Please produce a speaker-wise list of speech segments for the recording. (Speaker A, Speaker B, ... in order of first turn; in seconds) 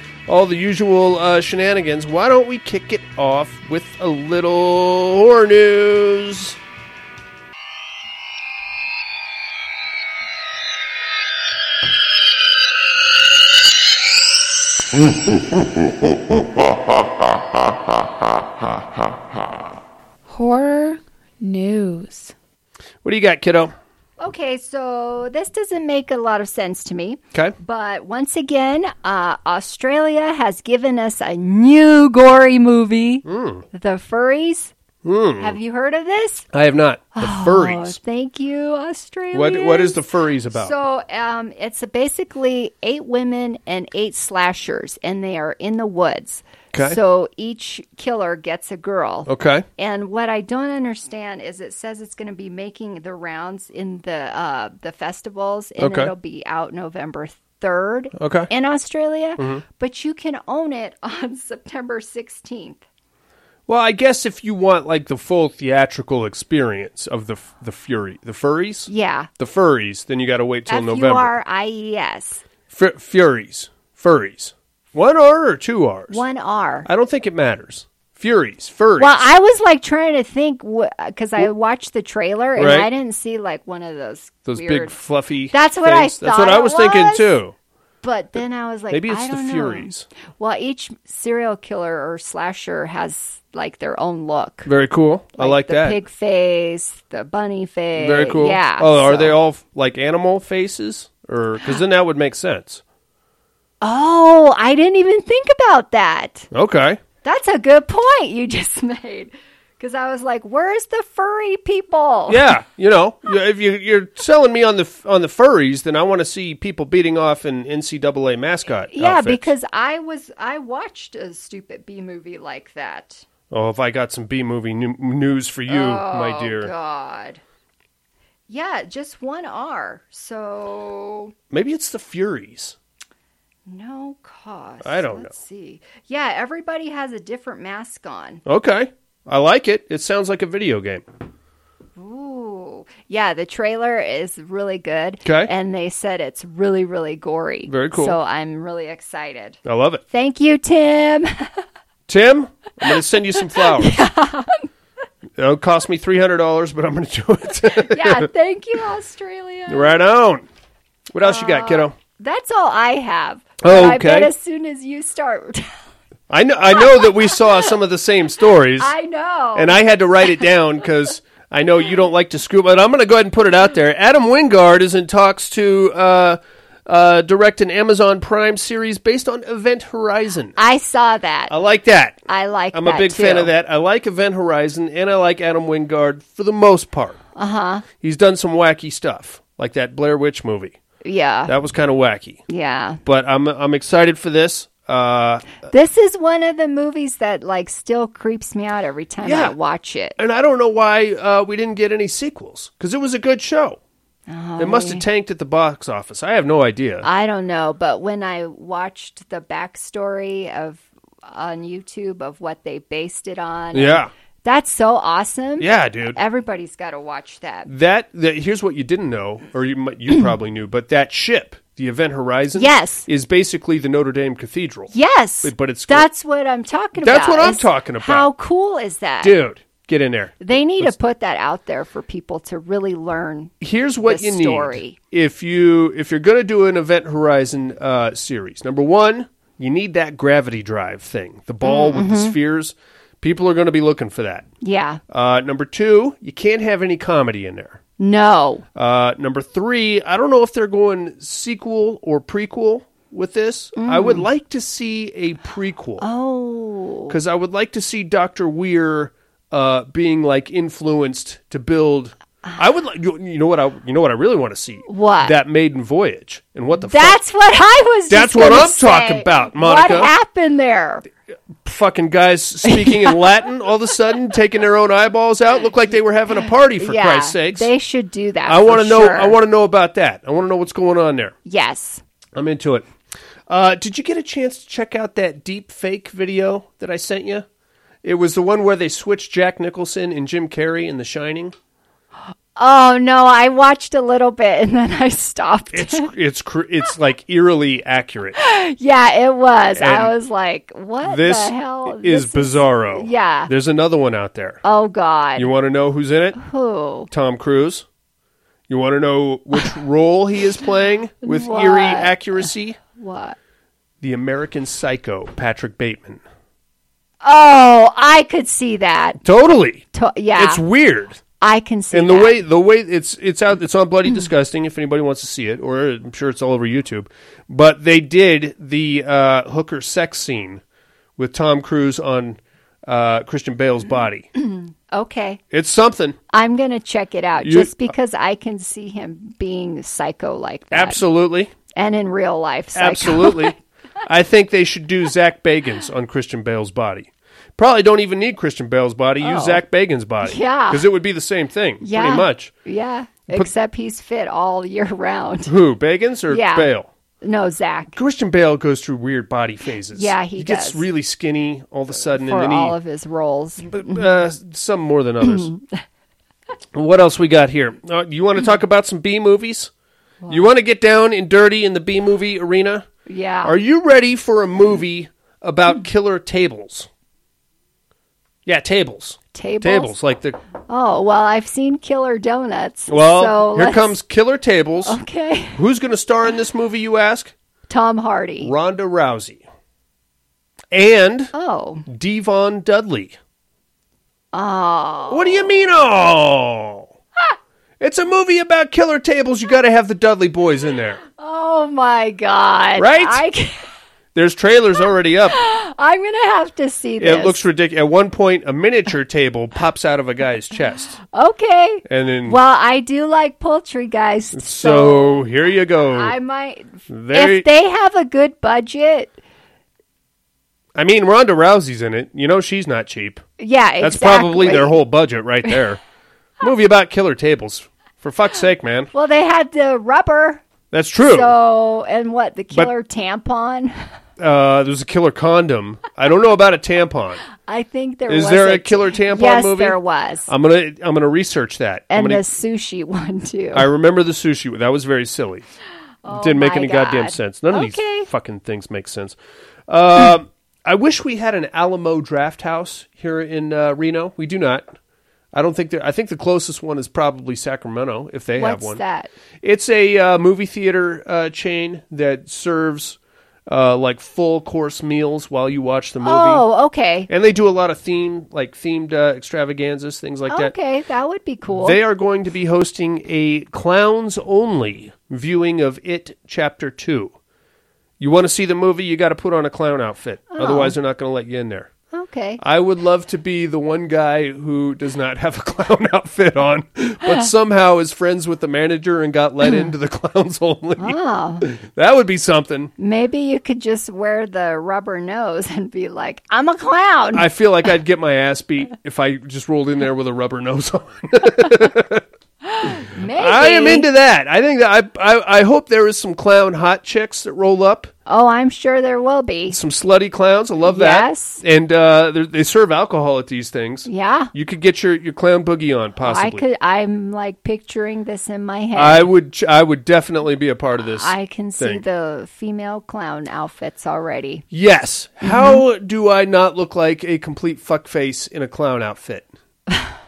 Speaker A: 0.3-6.6, 23.0-23.8, 33.2-33.6, 35.0-35.6, 36.5-38.0, 39.3-40.8, 46.7-47.0, 49.3-49.7, 55.8-56.1, 58.2-58.5, 59.4-59.6, 63.7-71.3, 72.7-76.2, 76.8-79.2, 82.6-82.9, 84.5-87.5, 88.9-90.1, 94.7-96.0, 98.0-102.8, 106.5-107.0, 112.3-119.5, 123.5-126.7, 131.5-132.8, 134.8-135.3, 138.5-141.0, 145.2-145.5, 147.7-148.2, 149.7-150.0, 152.1-154.0, 155.4-158.3, 159.7-160.4, 161.1-161.9, 163.6-164.3, 166.3-168.9, 169.6-180.6, 181.5-182.2, 182.7-187.2, 188.0-190.8, 191.5-192.4, 193.0-195.5, 199.2-199.6, 200.2-203.8, 204.6-207.1, 213.7-214.1, 215.6-216.2, 217.7-224.9, 225.4-226.1, 227.0-228.3, 229.2-230.9, 233.6-244.5, 245.1-247.8, 248.8-256.1, 257.1-267.2, 268.1-270.1, 271.6-277.7, 278.5-281.4, 282.4-282.9, 283.5-287.5, 288.0-291.6, 295.7-298.4, 299.8-300.1, 301.0-304.6, 305.4-306.4, 307.1-307.9, 308.7-312.8, 314.0-316.2, 319.2-319.8, 320.4-321.2, 321.9-330.6, 331.2-334.3, 335.5-336.2, 337.4-337.9, 340.7-341.5, 342.8-352.5, 355.5-356.9, 357.9-362.8, 363.6-365.5, 366.7-369.7, 370.3-372.9, 373.4-376.9, 378.5-380.4, 382.9-385.0, 385.6-387.3, 388.4-389.4, 390.7-391.3, 391.9-393.1, 395.1-396.9, 397.8-401.0, 402.8-403.2, 404.1-405.4, 407.0-411.0, 411.9-412.4, 414.3-416.1, 416.9-417.5, 420.8-423.2, 423.8-425.8, 426.4-428.9, 430.7-431.4, 434.2-437.2, 438.1-442.2, 443.5-445.5, 446.1-449.2, 449.7-454.7, 455.3-458.8, 459.4-466.5, 467.1-470.5, 471.6-477.2, 478.0-481.7, 482.4-492.7, 497.1-502.0, 502.6-507.9, 509.5-516.4, 518.8-521.8, 524.5-529.3
Speaker B: 20.3-22.3
Speaker C: 24.2-34.7, 35.4-36.5, 37.2-62.8, 68.9-69.3, 70.7-72.4, 76.1-76.9, 79.0-84.9, 85.5-87.4, 88.0-94.7, 95.4-99.4, 103.8-106.5, 107.2-112.5, 118.9-123.2, 125.7-127.4, 128.5-131.3, 133.7-138.4, 142.0-149.6, 150.1-151.6, 153.5-154.7, 157.7-159.9, 161.2-165.7, 166.7-167.8, 168.8-169.8, 180.6-181.6, 182.3-183.5, 187.3-187.9, 191.0-191.5, 192.5-193.0, 195.7-200.2, 204.3-205.1, 207.0-217.7, 222.6-223.1, 224.9-229.4, 230.4-235.0, 241.6-242.4, 244.6-245.0, 248.0-248.7, 253.8-254.3, 256.0-257.2, 264.9-265.4, 266.8-271.1, 272.6-273.2, 276.8-279.4, 281.4-282.0, 292.6-296.1, 298.4-303.5, 304.6-305.5, 306.4-307.1, 311.2-313.4, 317.2-319.2, 319.9-320.6, 321.4-322.4, 334.4-335.4, 336.3-341.0, 341.7-343.6, 349.2-349.6, 350.2-350.9, 351.8-355.6, 356.3-356.7, 357.2-358.0, 359.9-360.9, 362.0-364.1, 365.2-365.6, 370.2-370.5, 373.1-373.6, 379.3-379.9, 380.7-384.0, 384.8-385.6, 387.7-388.5, 391.3-391.9, 394.3-395.5, 401.2-403.7, 405.3-407.4, 411.1-415.3, 415.9-419.2, 423.4-424.8, 428.9-430.4, 431.0-433.9, 437.4-440.3, 441.9-443.7, 446.0-448.1, 458.4-459.1, 466.0-467.1, 470.3-471.8, 480.3-480.8, 481.9-482.4, 489.4-489.7, 490.8-491.4, 492.8-497.3, 502.6-503.9, 508.1-509.6, 510.6-511.4, 513.9-514.3, 516.0-519.1, 520.8-524.5, 525.2-525.6